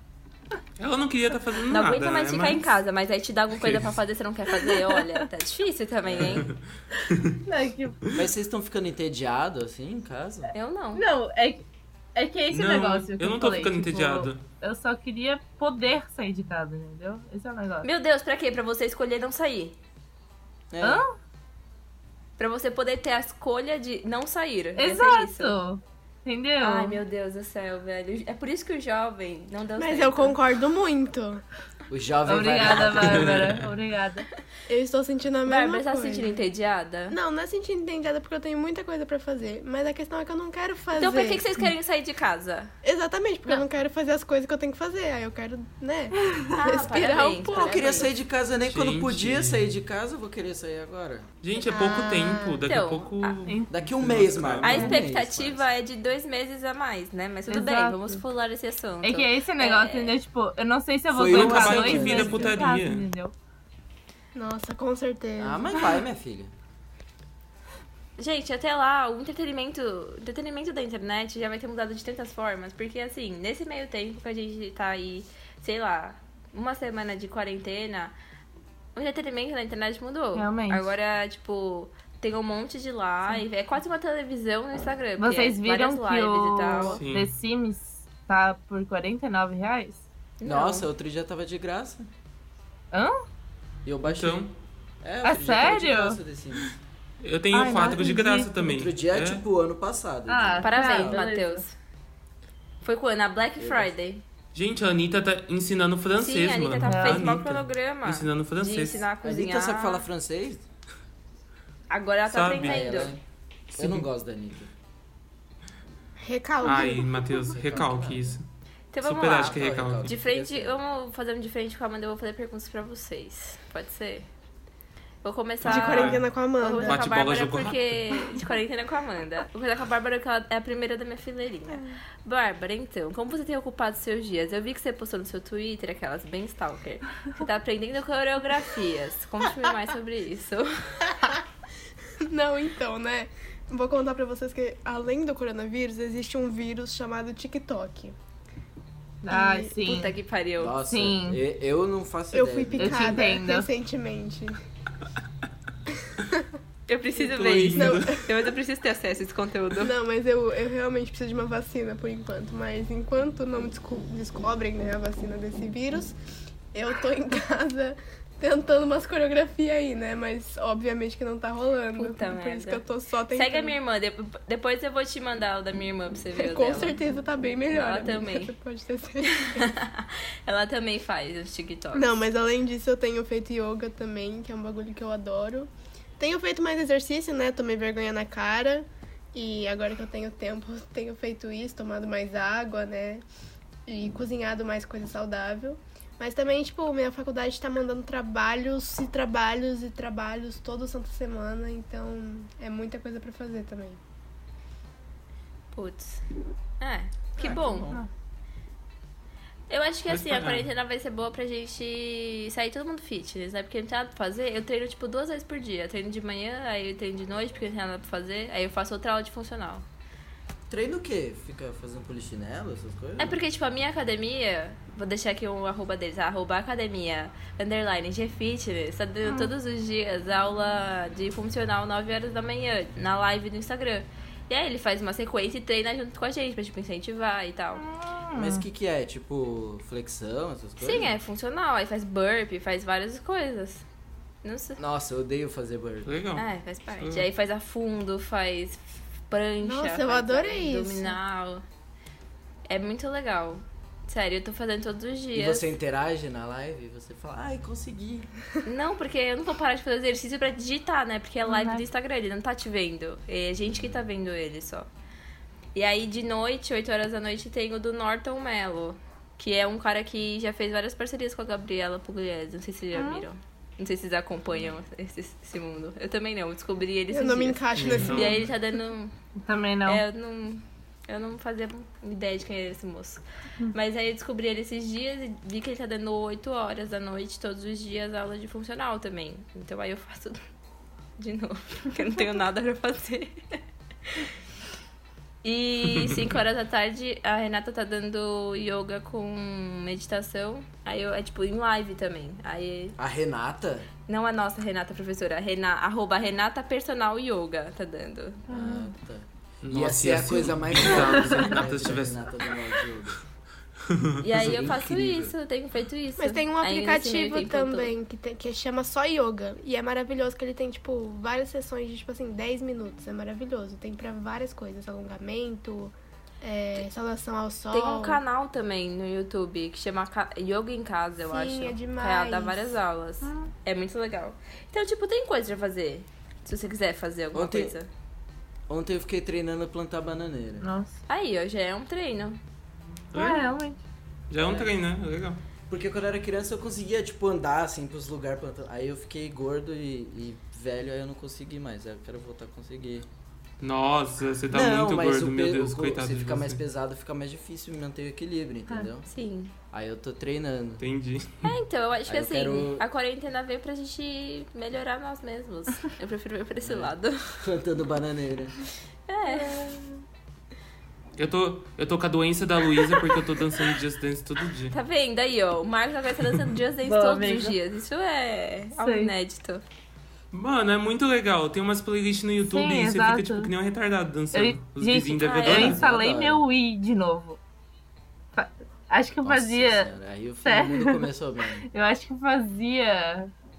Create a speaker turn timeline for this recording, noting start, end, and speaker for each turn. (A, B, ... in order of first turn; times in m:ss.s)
0:00.8-0:02.8 A
0:01.7-0:06.5 B
0:03.6-0:03.9 A
0:04.6-0:05.0 C
0:06.0-0:06.4 D
0:07.4-0:08.1 C
0:08.2-0:10.5 D
0:10.5-0:11.0 B
0:10.9-0:17.9 C
0:12.5-0:14.4 A
0:17.8-0:19.8 B
0:20.7-0:21.0 D
0:20.8-0:21.1 C
0:22.4-0:25.6 B
0:24.8-0:27.0 C
0:26.6-0:30.4 B
0:29.8-0:31.4 E
0:31.9-0:33.6 D
0:32.2-0:34.3 C
0:32.9-0:33.7 A
0:34.7-0:36.4 E
0:35.4-0:37.2 B
0:37.1-0:41.4 E
0:41.0-0:42.7 B
0:42.8-0:47.9 E
0:46.3-0:46.5 C
0:46.5-0:48.1 B
0:47.5-0:51.3 D
0:48.6-0:49.6 A
0:51.4-0:55.0 A
0:51.6-0:52.6 E
0:52.7-0:53.4 B
0:53.4-0:53.7 C
0:53.7-0:55.7 D
0:54.6-1:00.2 B
0:57.5-0:58.2 C
0:59.0-1:03.3 C
1:01.1-1:02.5 D
1:01.2-1:03.1 A
1:04.3-1:05.9 E
1:05.4-1:06.5 D
1:08.2-1:18.1 B
1:18.9-1:27.0 B
1:20.3-1:20.9 C
1:25.2-1:30.0 C
1:27.0-1:27.3 A
1:30.4-1:30.9 B
1:30.4-1:32.1 D
1:32.9-1:33.2 C
1:33.8-1:34.5 D
1:34.0-1:34.5 A
1:35.0-1:36.7 D
1:35.2-1:36.2 C
1:37.2-1:39.4 A
1:37.5-1:38.6 C
1:38.6-1:41.2 D
1:40.3-1:41.6 C
1:40.6-1:41.7 B
1:42.8-1:44.2 B
1:43.6-1:43.9 D
1:44.5-1:49.1 A
1:46.2-1:50.0 B
1:46.8-1:47.4 C
1:49.2-1:50.6 D
1:51.9-1:53.1 B
1:52.3-1:52.9 A
1:52.6-1:53.2 D
1:53.7-1:54.1 A
1:53.8-1:54.7 D
1:56.2-1:57.3 E
1:56.6-1:58.4 A
1:57.5-1:58.4 D
1:58.9-2:04.3 B
1:59.0-2:00.1 A
1:59.4-2:00.8 D
2:05.2-2:21.2 B
2:05.6-2:06.2 A
2:05.6-2:07.0 E
2:06.8-2:08.2 A
2:22.2-2:28.1 E
2:29.2-2:30.1 C
2:29.3-2:29.8 E
2:29.8-2:30.8 B
2:30.6-2:33.3 D
2:30.9-2:31.4 C
2:32.3-2:34.6 E
2:32.8-2:33.7 C
2:36.1-2:36.4 E
2:36.9-2:39.9 B
2:37.2-2:38.3 A
2:37.7-2:38.3 E
2:39.8-2:46.2 E
2:46.7-2:53.8 E
2:52.0-2:57.0 B
2:56.4-2:59.7 E
2:57.7-2:58.5 B
2:59.2-3:02.2 B
3:01.9-3:13.2 E
3:13.8-3:24.0 E
3:25.7-3:26.2 B
3:26.8-3:28.0 B
3:27.4-3:28.0 D
3:29.7-3:39.8 B
3:30.1-3:30.7 A
3:40.7-3:43.4 D
3:43.2-3:57.8 B
3:49.2-3:49.5 C
3:57.8-3:58.6 C
3:58.3-4:01.1 D
4:00.8-4:03.8 B
4:04.4-4:04.8 B
4:04.8-4:06.1 D
4:06.0-4:06.5 A
4:06.4-4:11.6 B
4:07.0-4:07.2 A
4:09.6-4:11.2 E
4:12.7-4:15.7 B
4:15.3-4:18.3 D
4:18.6-4:24.9 B
4:21.4-4:21.8 C
4:25.7-4:39.1 B
4:32.9-4:33.3 C
4:37.1-4:38.5 E
4:37.7-4:38.5 A
4:39.4-4:40.0 C
4:39.8-4:50.4 B
4:51.2-4:54.2 B
4:55.4-5:03.0 B
5:03.0-5:03.9 D
5:04.1-5:08.4 B
5:08.5-5:08.9 C
5:08.5-5:13.2 D
5:09.6-5:12.3 A
5:11.1-5:11.6 C
5:13.8-5:14.1 A
5:14.2-5:17.9 B
5:14.3-5:15.3 D
5:16.2-5:28.2 E
5:27.7-5:37.9 B
5:31.3-5:32.8 E
5:33.2-5:33.5 C
5:37.3-5:37.8 D
5:38.7-5:40.6 D
5:40.6-5:40.9 C
5:41.1-5:42.4 B
5:43.1-5:43.4 A
5:43.1-5:43.8 C
5:44.3-5:45.4 A
5:44.4-5:44.7 D
5:45.7-5:53.1 D
5:53.6-5:56.6 A
5:54.5-5:59.1 D
5:59.1-5:59.5 B
5:59.7-6:00.8 D
6:00.8-6:01.5 A
6:01.4-6:07.4 B
6:02.1-6:02.8 D
6:06.6-6:08.5 D
6:09.1-6:09.6 B
6:09.2-6:10.0 C
6:11.2-6:14.7 A
6:14.7-6:19.6 B
6:16.8-6:17.5 C
6:18.8-6:19.1 C
6:20.3-6:25.8 A
6:22.4-6:23.5 C
6:24.3-6:27.4 C
6:25.2-6:25.8 B
6:25.6-6:26.4 D
6:28.3-6:29.9 C
6:29.2-6:31.6 D
6:30.4-6:31.1 C
6:31.6-6:33.3 C